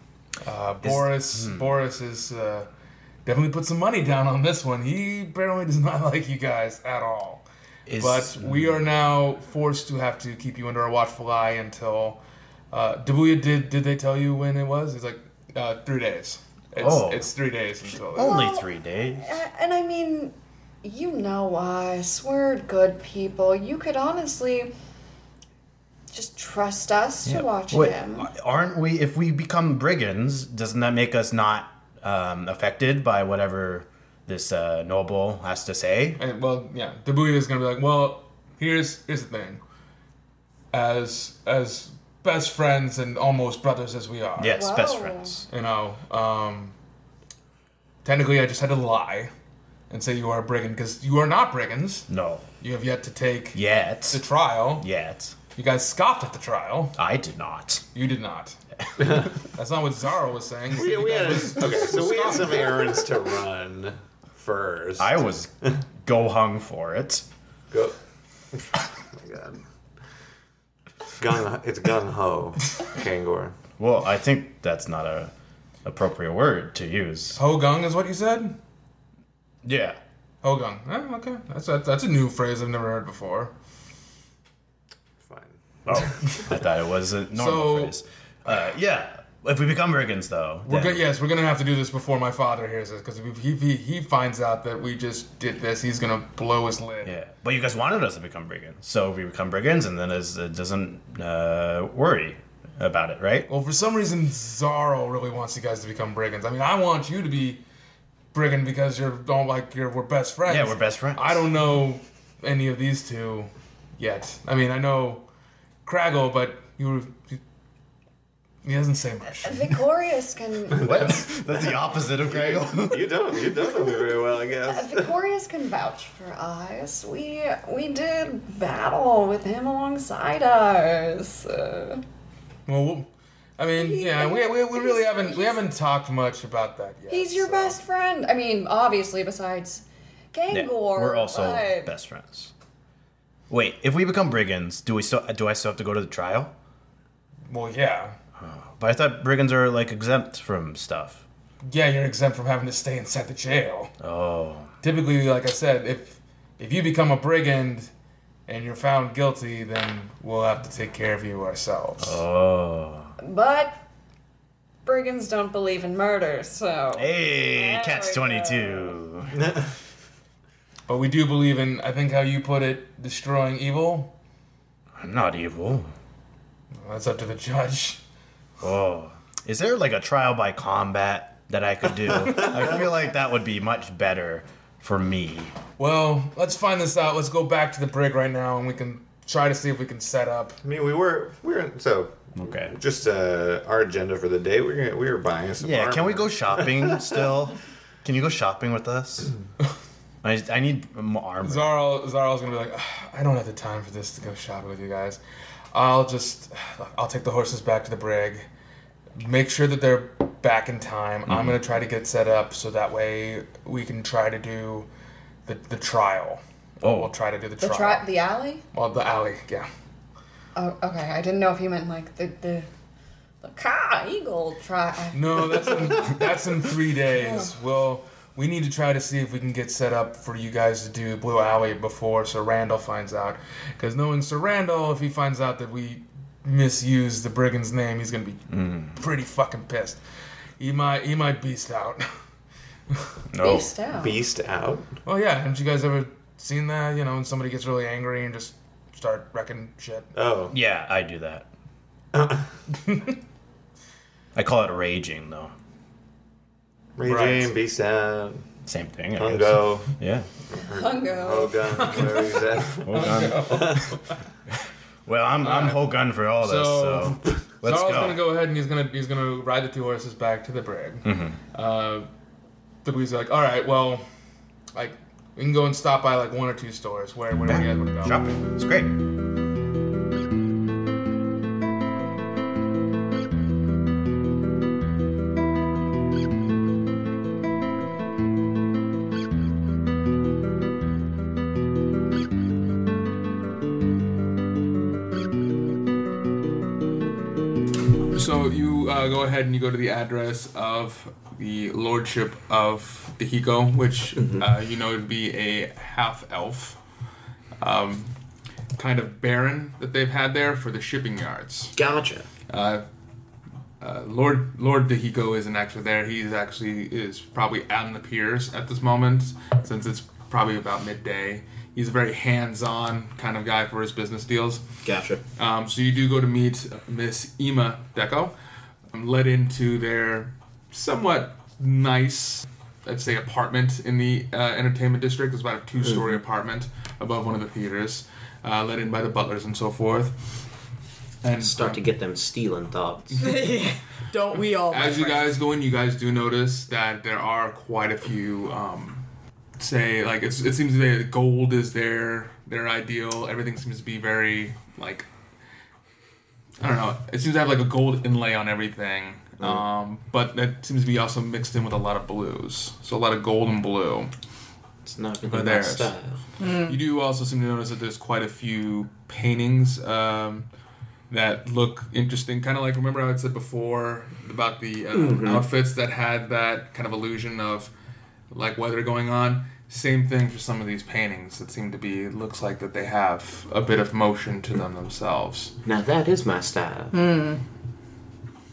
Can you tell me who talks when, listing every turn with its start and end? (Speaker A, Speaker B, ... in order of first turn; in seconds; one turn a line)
Speaker A: 0.4-2.7
Speaker B: 0.8-1.7
Speaker A: 3.2-7.4
Speaker B: 7.8-8.8
Speaker A: 8.0-12.2
Speaker A: 12.7-18.4
Speaker B: 16.8-17.3
Speaker B: 18.1-19.4
Speaker C: 18.1-24.7
Speaker C: 26.1-28.3
Speaker B: 27.2-36.2
Speaker A: 36.2-39.6
Speaker A: 40.7-44.6
Speaker B: 44.4-45.5
Speaker C: 44.5-45.4
Speaker A: 45.5-46.7
Speaker A: 48.0-49.3
Speaker A: 49.9-52.1
Speaker B: 52.1-52.5
Speaker A: 52.6-54.9
Speaker B: 53.5-54.2
Speaker B: 54.8-55.4
Speaker A: 55.5-57.0
Speaker B: 57.0-57.9
Speaker A: 57.9-58.6
Speaker D: 59.0-59.2
Speaker A: 59.2-62.9
Speaker D: 60.7-65.1
Speaker B: 65.0-65.5
Speaker B: 66.0-67.2
Speaker D: 68.5-69.6
Speaker D: 71.2-73.5
Speaker B: 73.8-75.3
Speaker B: 75.8-77.4
Speaker A: 77.3-78.5
Speaker B: 79.6-80.0
Speaker A: 80.4-83.5
Speaker D: 85.2-86.1
Speaker B: 85.8-91.0
Speaker A: 87.3-88.0
Speaker A: 90.6-97.2
Speaker B: 97.0-103.5
Speaker A: 103.5-107.6
Speaker A: 108.3-115.2
Speaker B: 110.5-111.5
Speaker A: 115.8-117.4
Speaker A: 118.6-119.8
Speaker C: 119.4-120.8
Speaker D: 120.7-125.1
Speaker B: 120.7-123.3
Speaker C: 124.6-132.0
Speaker A: 132.7-137.8
Speaker C: 133.8-135.6
Speaker C: 137.1-141.9
Speaker B: 140.5-142.5
Speaker B: 143.5-146.5
Speaker A: 147.5-148.2
Speaker B: 148.4-151.2
Speaker A: 151.7-153.9
Speaker B: 154.0-154.7
Speaker A: 154.8-157.9
Speaker A: 158.5-162.2
Speaker B: 162.0-163.1
Speaker C: 163.2-163.8
Speaker C: 164.8-168.9
Speaker B: 166.9-169.4
Speaker D: 169.3-169.6
Speaker A: 170.9-174.1
Speaker B: 175.0-175.9
Speaker A: 176.7-178.0
Speaker B: 178.6-185.5
Speaker A: 185.8-190.6
Speaker D: 190.6-197.1
Speaker B: 192.3-192.7
Speaker B: 195.6-199.3
Speaker B: 200.2-201.7
Speaker A: 201.4-205.2
Speaker A: 205.7-208.4
Speaker A: 209.2-214.9
Speaker B: 211.3-211.6
Speaker A: 215.4-218.1
Speaker B: 216.8-217.1
Speaker C: 217.6-218.6
Speaker A: 218.7-219.7
Speaker C: 220.5-222.7
Speaker C: 223.4-226.0
Speaker A: 225.1-240.0
Speaker C: 227.1-227.5
Speaker B: 238.5-238.9
Speaker A: 240.6-242.1
Speaker B: 243.3-243.7
Speaker C: 243.4-244.2
Speaker D: 243.9-244.9
Speaker A: 245.1-250.1
Speaker D: 250.1-250.5
Speaker B: 250.5-251.5
Speaker D: 252.1-252.5
Speaker B: 254.3-255.5
Speaker D: 257.0-258.4
Speaker A: 257.0-257.5
Speaker B: 258.6-260.3
Speaker D: 259.1-259.9
Speaker D: 260.5-264.0
Speaker C: 260.7-262.1
Speaker B: 262.8-263.9
Speaker A: 262.9-263.8
Speaker B: 265.1-268.3
Speaker A: 265.4-272.1
Speaker B: 271.0-271.4
Speaker A: 272.8-274.1
Speaker A: 274.7-278.2
Speaker B: 277.4-278.9
Speaker A: 298.1-306.8
Speaker E: 304.1-304.5
Speaker A: 307.6-308.1
Speaker A: 308.8-311.7
Speaker E: 311.7-312.3
Speaker A: 312.5-312.8
Speaker A: 313.8-324.6
Speaker E: 324.8-325.2
Speaker A: 325.4-328.3
Speaker A: 328.9-340.4
Speaker A: 341.2-341.8
Speaker E: 341.4-343.3
Speaker A: 343.1-343.4
Speaker F: 343.2-345.3
Speaker A: 344.7-349.0
Speaker A: 349.6-355.1
Speaker A: 356.6-364.1
Speaker E: 364.8-366.2
Speaker A: 365.2-365.9
Speaker F: 366.4-366.8
Speaker A: 366.6-370.5
Speaker A: 371.1-377.7
Speaker E: 374.9-375.4
Speaker A: 378.3-385.5
Speaker E: 385.6-386.9
Speaker F: 386.9-387.4